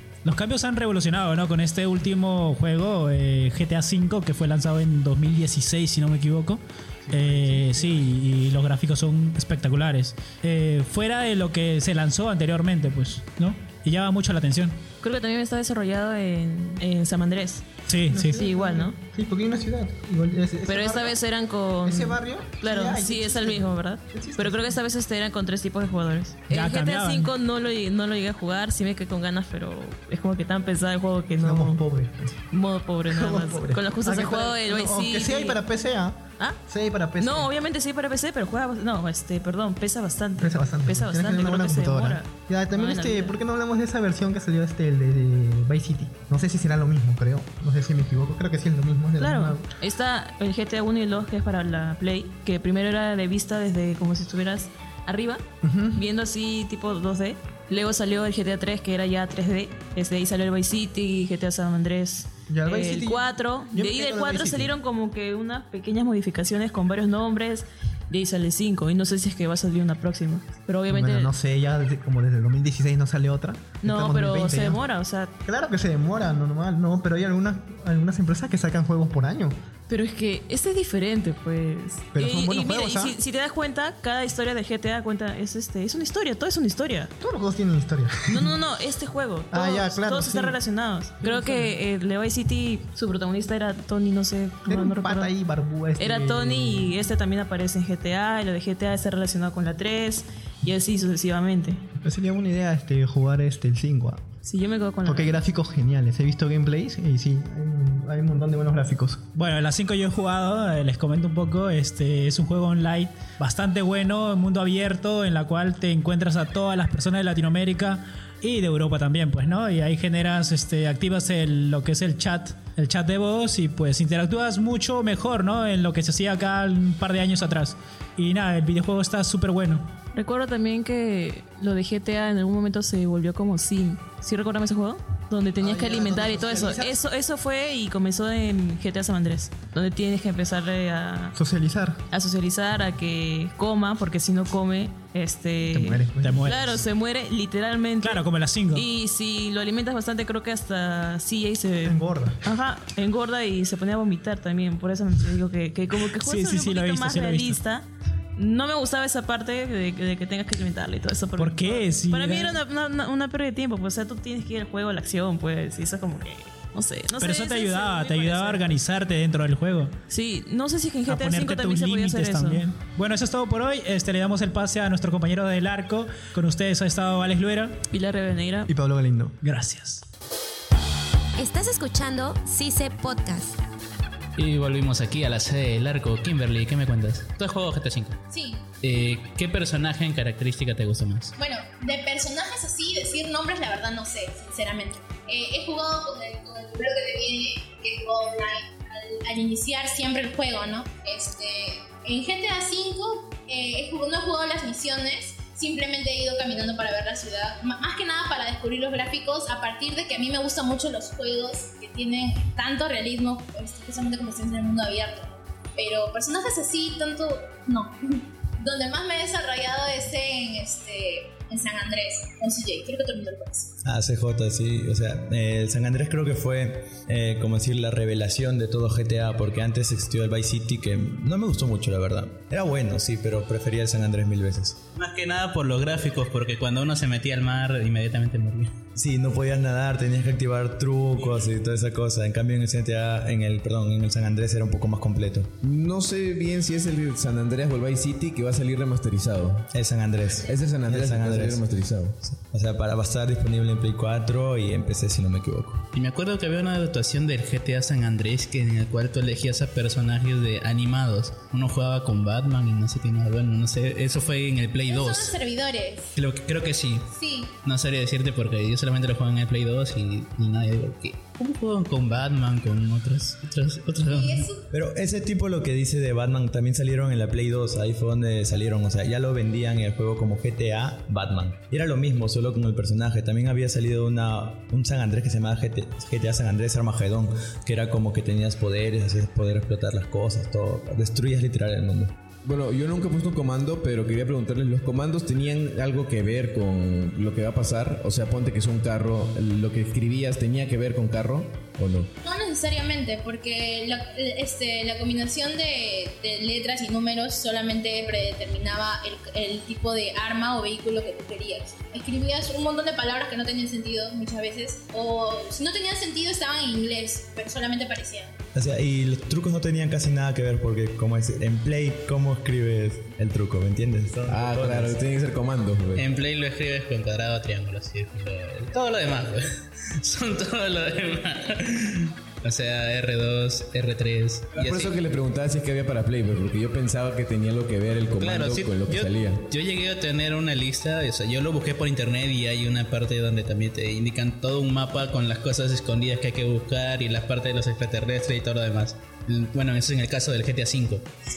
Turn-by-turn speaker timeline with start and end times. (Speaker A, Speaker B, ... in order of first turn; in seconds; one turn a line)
Speaker A: 0.2-14.8
Speaker B: 7.1-7.9
Speaker C: 15.0-19.0
Speaker A: 17.9-18.4
Speaker B: 18.4-21.2
Speaker C: 20.6-31.8
Speaker B: 21.8-24.8
Speaker A: 26.5-27.3
Speaker B: 31.4-32.3
Speaker C: 32.5-35.6
Speaker B: 33.1-37.5
Speaker C: 37.2-43.4
Speaker B: 40.4-49.7
Speaker C: 49.2-55.4
Speaker B: 55.6-56.0
Speaker C: 55.9-71.3
Speaker B: 62.5-64.7
Speaker B: 70.9-74.8
Speaker C: 73.8-75.3
Speaker B: 75.4-79.6
Speaker C: 79.9-87.1
Speaker B: 82.1-83.2
Speaker B: 87.2-88.6
Speaker C: 88.3-95.3
Speaker B: 89.5-90.6
Speaker B: 91.2-91.7
Speaker B: 94.7-97.0
Speaker C: 96.0-101.8
Speaker B: 102.0-104.2
Speaker C: 104.4-105.4
Speaker B: 105.0-109.2
Speaker A: 109.3-129.9
Speaker C: 130.1-141.4
Speaker B: 135.6-137.0
Speaker B: 141.3-142.0
Speaker C: 142.1-168.8
Speaker B: 145.6-146.5
Speaker A: 146.2-146.8
Speaker A: 148.0-148.9
Speaker B: 151.8-152.4
Speaker A: 156.2-157.6
Speaker A: 161.4-162.6
Speaker A: 167.2-169.9
Speaker C: 170.1-172.7
Speaker A: 171.1-177.8
Speaker C: 177.9-178.7
Speaker B: 178.7-179.4
Speaker A: 179.4-180.1
Speaker D: 181.4-183.6
Speaker E: 184.4-188.2
Speaker F: 188.3-188.7
Speaker E: 188.8-191.3
Speaker F: 191.4-223.7
Speaker G: 223.8-234.8
Speaker E: 235.0-238.7
Speaker G: 238.9-245.5
Speaker H: 245.6-249.7
Speaker G: 249.7-251.7
Speaker H: 250.4-252.2
Speaker G: 252.2-255.9
Speaker E: 255.9-265.4
Speaker F: 264.8-266.1
Speaker E: 266.1-267.1
Speaker F: 267.1-267.5
Speaker E: 267.6-274.5
Speaker F: 274.1-274.7
Speaker G: 274.7-292.1
Speaker H: 292.4-302.1
Speaker F: 302.2-318.3
Speaker G: 318.5-325.0
Speaker H: 324.3-326.1
Speaker E: 325.9-329.4
Speaker E: 330.0-335.0
Speaker H: 334.5-339.4
Speaker E: 338.2-351.1